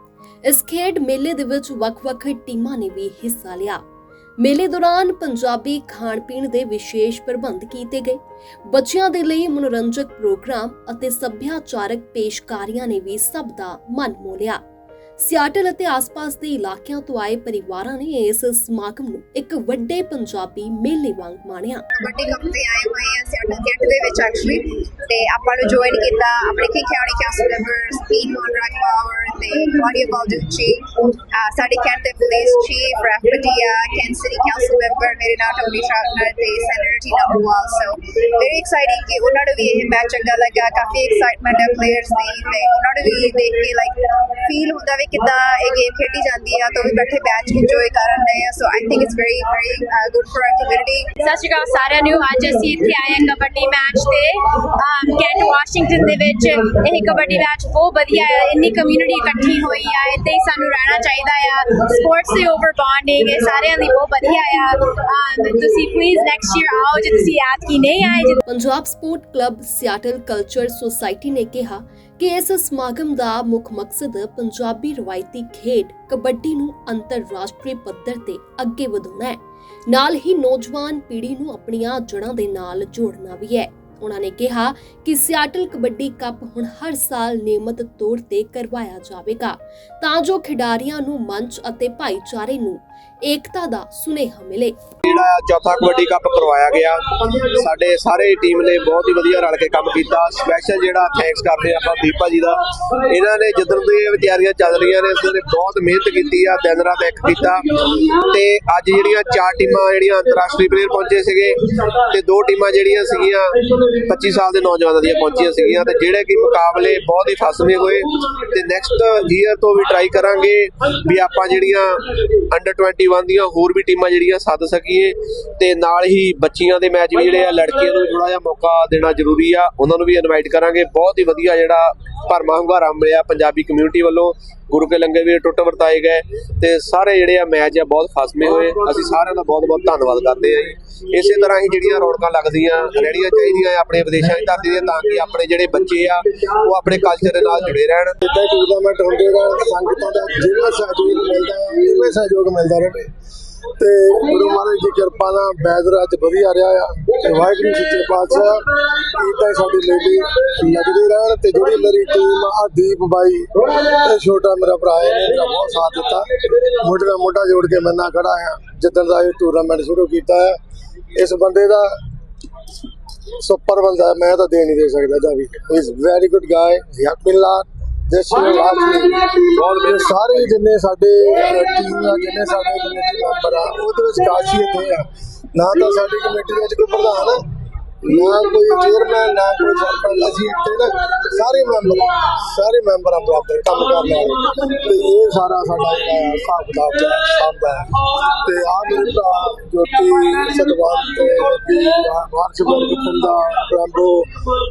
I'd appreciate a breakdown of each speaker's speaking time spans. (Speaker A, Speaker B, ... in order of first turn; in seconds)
Speaker A: 0.5-3.8, 4.4-14.6, 15.2-21.9, 68.5-94.8
Speaker B: 21.9-51.1
Speaker C: 51.2-68.4
Speaker D: 95.1-113.6, 114.1-148.2, 179.6-180.1
Speaker E: 148.2-153.1, 153.8-170.6, 171.2-172.0, 173.4-187.4, 188.0-204.3